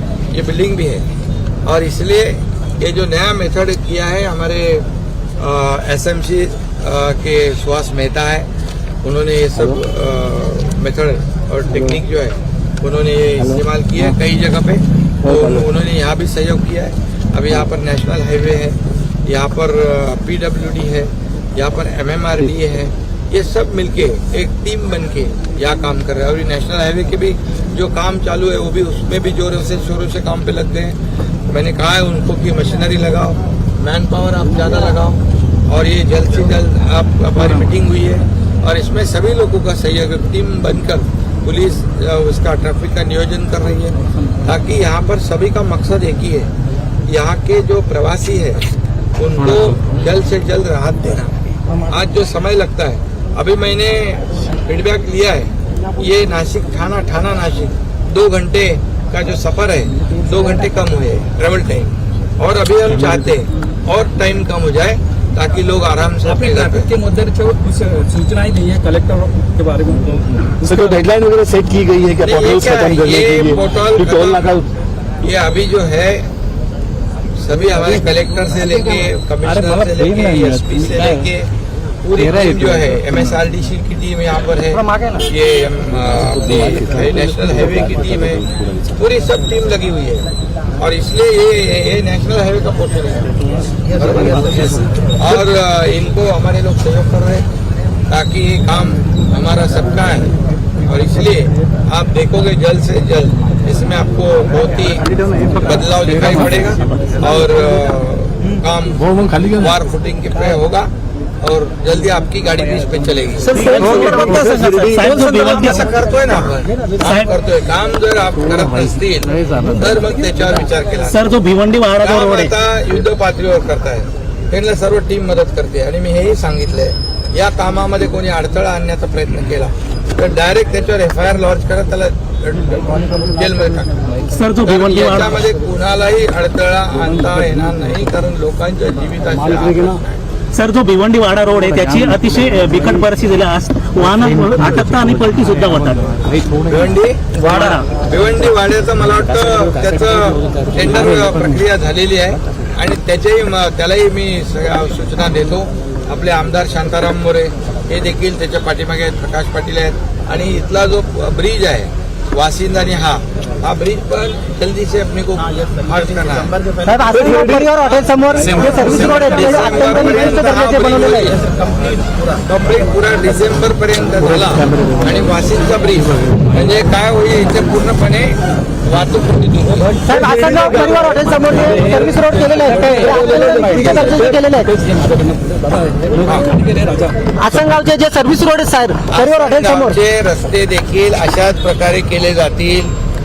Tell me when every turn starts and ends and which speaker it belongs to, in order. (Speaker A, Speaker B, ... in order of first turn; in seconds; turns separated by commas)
Speaker A: 0.3-1.1, Speaker A: 1.6-4.9, Speaker A: 5.4-8.5, Speaker A: 9.0-46.5, Speaker A: 47.0-66.9, Speaker B: 66.3-70.9, Speaker C: 70.6-74.6, Speaker A: 72.2-74.5, Speaker A: 75.2-76.3, Speaker A: 77.3-81.5, Speaker A: 82.0-93.3, Speaker A: 93.9-97.4, Speaker A: 98.1-110.9, Speaker A: 111.4-121.2, Speaker D: 113.5-115.9, Speaker D: 117.0-117.2, Speaker D: 121.0-122.5, Speaker A: 122.0-140.2, Speaker D: 134.2-135.4, Speaker D: 140.5-146.2, Speaker A: 146.6-166.6, Speaker D: 147.4-147.8, Speaker E: 166.8-171.3, Speaker C: 167.1-167.7, Speaker A: 168.4-179.9, Speaker B: 179.9-187.2, Speaker E: 180.0-184.7, Speaker A: 186.2-186.5, Speaker E: 187.4-190.0, Speaker A: 189.1-192.9